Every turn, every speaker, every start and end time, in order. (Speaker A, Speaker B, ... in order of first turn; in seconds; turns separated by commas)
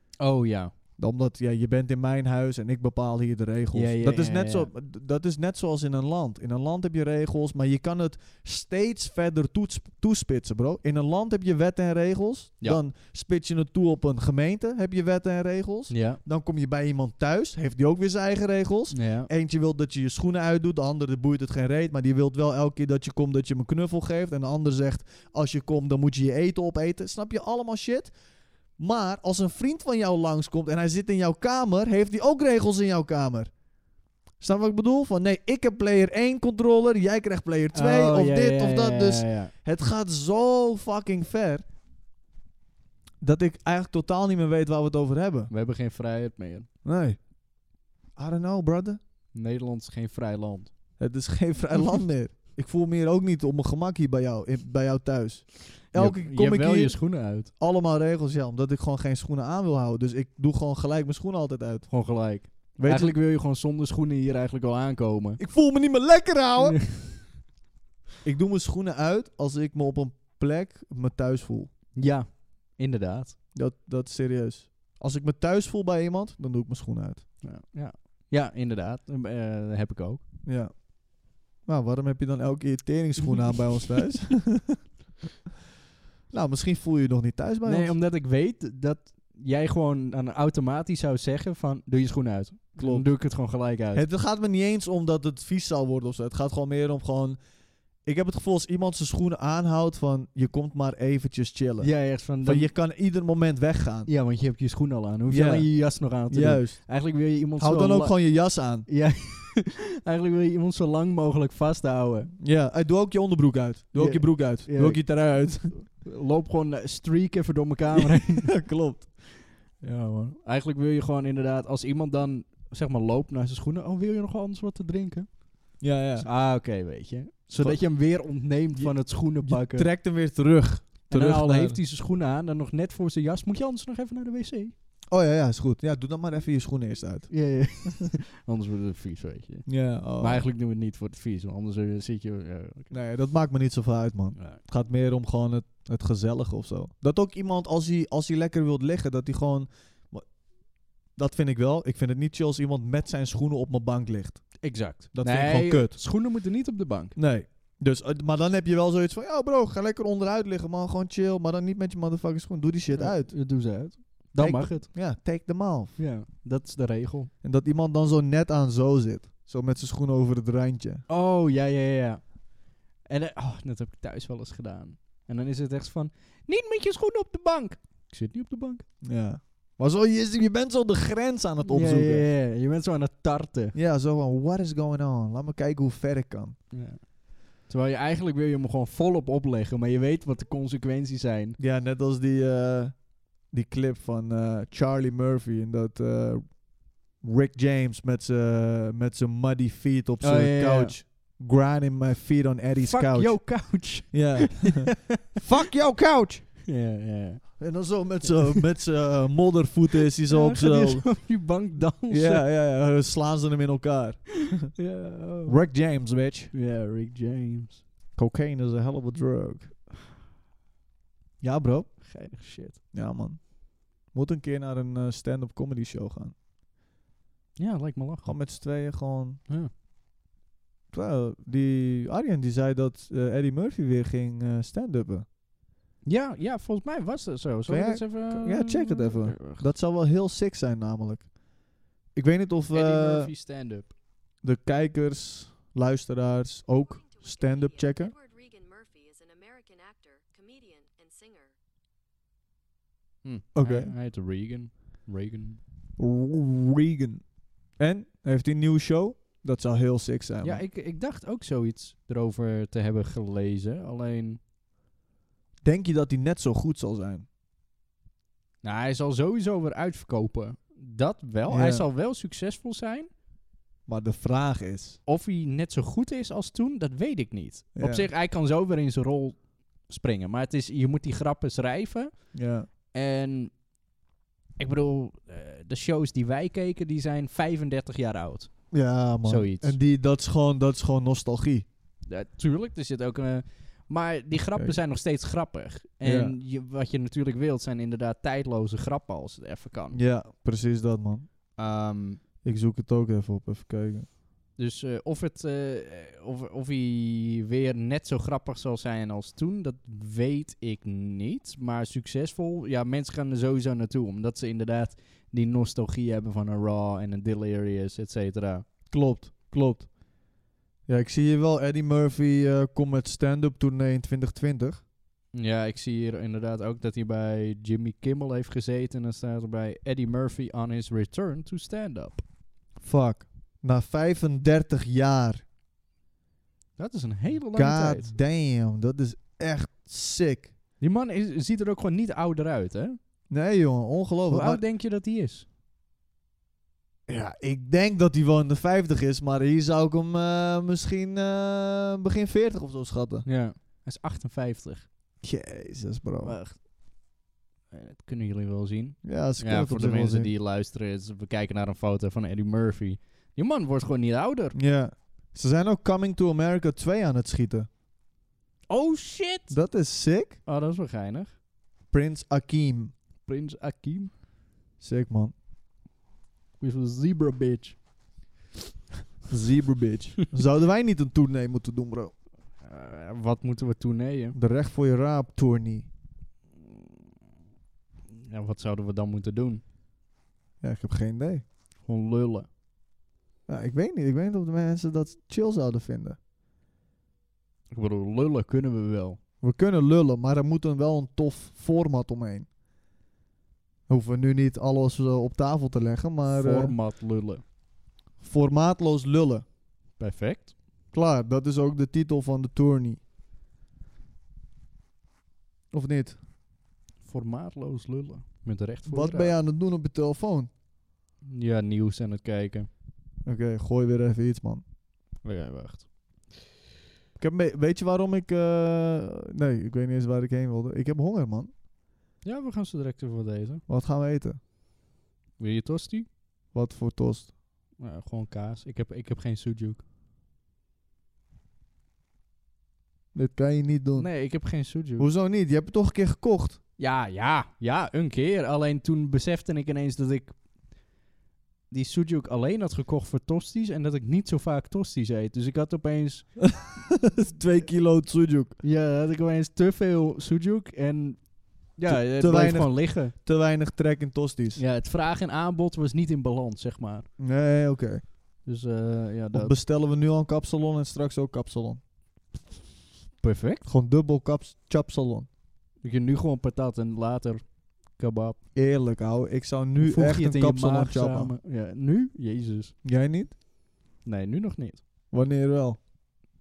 Speaker A: 0.2-0.7, Speaker B: 1.0-28.1, Speaker A: 3.7-4.7, Speaker A: 15.9-16.2, Speaker A: 18.9-19.3, Speaker B: 28.8-33.5, Speaker B: 34.4-41.6, Speaker A: 37.7-39.5, Speaker B: 43.2-45.5, Speaker A: 45.5-46.7, Speaker B: 46.8-47.2, Speaker B: 48.1-49.0, Speaker A: 49.3-50.7, Speaker B: 51.0-57.0, Speaker A: 55.9-57.5, Speaker B: 57.6-61.9, Speaker A: 61.9-65.4, Speaker B: 62.8-63.1, Speaker B: 65.4-66.8, Speaker A: 66.6-67.2, Speaker B: 68.2-71.7, Speaker A: 72.0-73.4, Speaker B: 73.5-77.2, Speaker A: 77.4-80.2, Speaker B: 80.5-80.8, Speaker B: 81.6-84.8, Speaker B: 86.3-87.9, Speaker A: 87.7-94.0, Speaker B: 92.8-93.1, Speaker B: 93.9-97.4, Speaker B: 98.0-104.1, Speaker A: 101.8-102.7, Speaker A: 104.1-108.2, Speaker B: 105.3-105.7, Speaker B: 106.3-106.8, Speaker B: 107.6-108.9, Speaker A: 108.9-112.3, Speaker B: 112.4-115.7, Speaker A: 113.9-115.1, Speaker A: 115.6-118.5, Speaker B: 117.9-119.1, Speaker A: 119.8-125.4, Speaker B: 125.8-126.3, Speaker A: 126.2-129.9, Speaker B: 128.8-131.8, Speaker A: 131.1-134.7, Speaker B: 135.1-137.3, Speaker A: 137.3-139.7, Speaker B: 139.7-140.4, Speaker A: 140.2-142.9, Speaker B: 142.9-150.2, Speaker B: 151.2-154.6, Speaker A: 154.6-157.2, Speaker B: 155.1-156.0, Speaker B: 157.2-163.4, Speaker A: 162.9-164.9, Speaker B: 164.4-166.0, Speaker A: 166.0-167.3, Speaker B: 167.4-171.0, Speaker A: 171.1-172.4, Speaker A: 173.0-178.8, Speaker B: 179.0-182.2, Speaker A: 181.6-183.8, Speaker B: 183.7-186.6, Speaker A: 186.7-191.6, Speaker B: 191.6-206.5, Speaker A: 200.2-200.9, Speaker A: 202.8-205.2, Speaker A: 206.7-207.6, Speaker B: 207.6-211.1, Speaker A: 208.2-208.6, Speaker A: 210.3-212.4, Speaker B: 212.1-214.7, Speaker A: 214.6-215.6, Speaker B: 215.4-216.5, Speaker A: 216.5-217.8, Speaker B: 218.2-219.7, Speaker B: 221.4-221.9, Speaker A: 222.0-222.8, Speaker B: 222.9-226.3, Speaker A: 227.6-228.3, Speaker B: 228.2-229.4, Speaker B: 230.9-235.2, Speaker A: 236.0-239.7, Speaker B: 237.7-241.3, Speaker B: 242.1-243.3, Speaker A: 242.7-243.9, Speaker B: 244.4-248.1, Speaker C: 246.8-251.5, Speaker A: 253.2-255.6, Speaker B: 253.5-253.9, Speaker B: 256.0-257.2, Speaker B: 257.8-260.6, Speaker A: 260.4-264.4, Speaker B: 265.6-267.2, Speaker A: 268.6-273.1, Speaker B: 271.5-271.9, Speaker B: 273.9-275.0, Speaker A: 275.1-282.3, Speaker B: 277.8-278.1, Speaker B: 282.3-282.7, Speaker A: 282.9-283.5, Speaker A: 284.6-288.5, Speaker B: 288.7-291.6, Speaker A: 289.2-289.8, Speaker A: 292.1-300.0, Speaker B: 296.0-296.3, Speaker B: 299.9-301.3, Speaker A: 301.6-302.2, Speaker B: 302.4-304.1, Speaker A: 304.6-318.6, Speaker B: 318.9-319.9, Speaker B: 320.9-324.8, Speaker A: 325.3-332.2, Speaker B: 332.8-335.4, Speaker A: 336.8-338.1, Speaker B: 337.5-340.5, Speaker A: 340.8-343.0, Speaker B: 343.3-344.6, Speaker A: 344.3-345.4, Speaker B: 347.1-353.2, Speaker A: 353.2-354.9, Speaker B: 355.2-356.4, Speaker A: 356.2-356.6, Speaker A: 357.7-364.6, Speaker B: 359.0-360.3, Speaker B: 364.5-367.7, Speaker A: 368.7-369.5, Speaker B: 369.5-370.4, Speaker A: 370.4-371.3, Speaker B: 371.9-372.9, Speaker A: 373.2-374.1, Speaker B: 374.8-375.3, Speaker A: 376.6-377.8, Speaker B: 379.3-382.1, Speaker A: 382.6-384.4, Speaker B: 384.3-385.9, Speaker A: 388.3-389.6, Speaker B: 390.6-391.4, Speaker A: 391.8-392.5, Speaker B: 393.5-396.2, Speaker A: 397.7-399.2, Speaker B: 399.4-402.5, Speaker B: 403.9-406.7, Speaker A: 406.3-407.4, Speaker B: 408.2-409.4, Speaker A: 410.0-410.5, Speaker B: 410.9-413.0, Speaker B: 415.7-416.2, Speaker A: 417.0-419.3, Speaker B: 418.9-420.5, Speaker A: 421.2-422.7, Speaker B: 423.2-424.6, Speaker A: 425.2-425.9, Speaker B: 427.2-431.5, Speaker A: 432.2-433.6, Speaker B: 433.7-434.4, Speaker A: 435.4-436.1, Speaker B: 436.5-437.3, Speaker A: 437.8-439.8, Speaker B: 443.1-444.1, Speaker A: 443.9-445.1, Speaker B: 445.0-446.6, Speaker A: 446.8-450.3, Speaker A: 451.7-456.3, Speaker B: 456.4-458.6, Speaker A: 458.6-461.2, Speaker A: 461.7-463.1, Speaker B: 461.8-464.6, Speaker A: 464.6-467.1, Speaker B: 467.2-468.0, Speaker A: 468.4-469.5, Speaker B: 469.3-471.8, Speaker A: 473.2-473.7, Speaker B: 473.6-475.3, Speaker A: 475.8-478.4, Speaker B: 478.5-481.3, Speaker A: 479.8-482.7, Speaker B: 482.8-483.3, Speaker A: 484.0-484.8, Speaker B: 485.1-485.8